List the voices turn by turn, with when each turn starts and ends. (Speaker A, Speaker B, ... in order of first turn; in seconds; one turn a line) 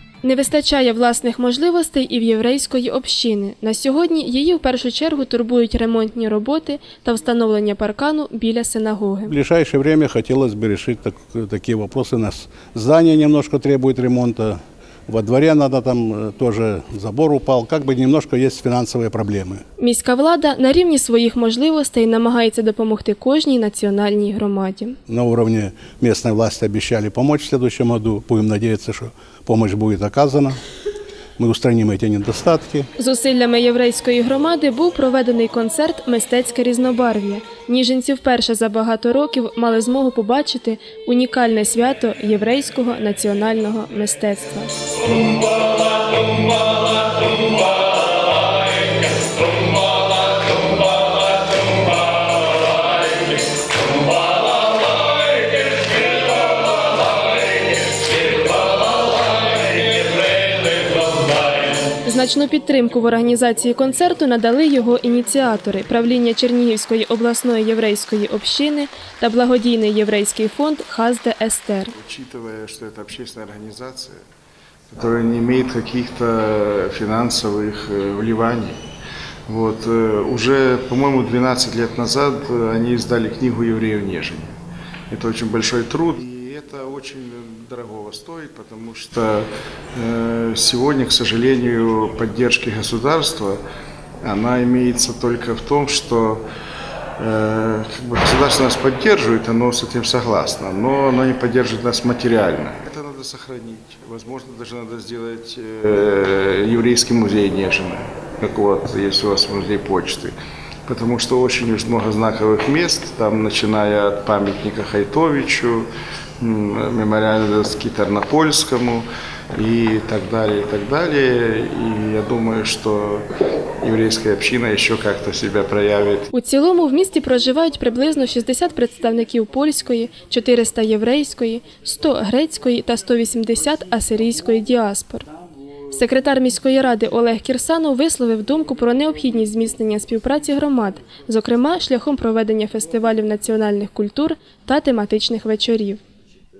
Speaker A: 0.2-9.3
Speaker B: 9.3-19.6
Speaker A: 19.8-25.0
Speaker B: 25.1-30.6
Speaker B: 31.4-32.9
Speaker A: 33.0-44.7
Speaker A: 62.0-71.9
Speaker C: 72.0-74.2
Speaker C: 74.9-78.8
Speaker C: 79.5-84.5
Speaker C: 85.1-93.6
Speaker C: 94.2-96.4
Speaker C: 97.2-110.3
Speaker C: 110.9-115.8
Speaker C: 116.4-123.2
Speaker C: 123.8-126.3
Speaker A: 126.3-135.2
Speaker A: 135.9-146.0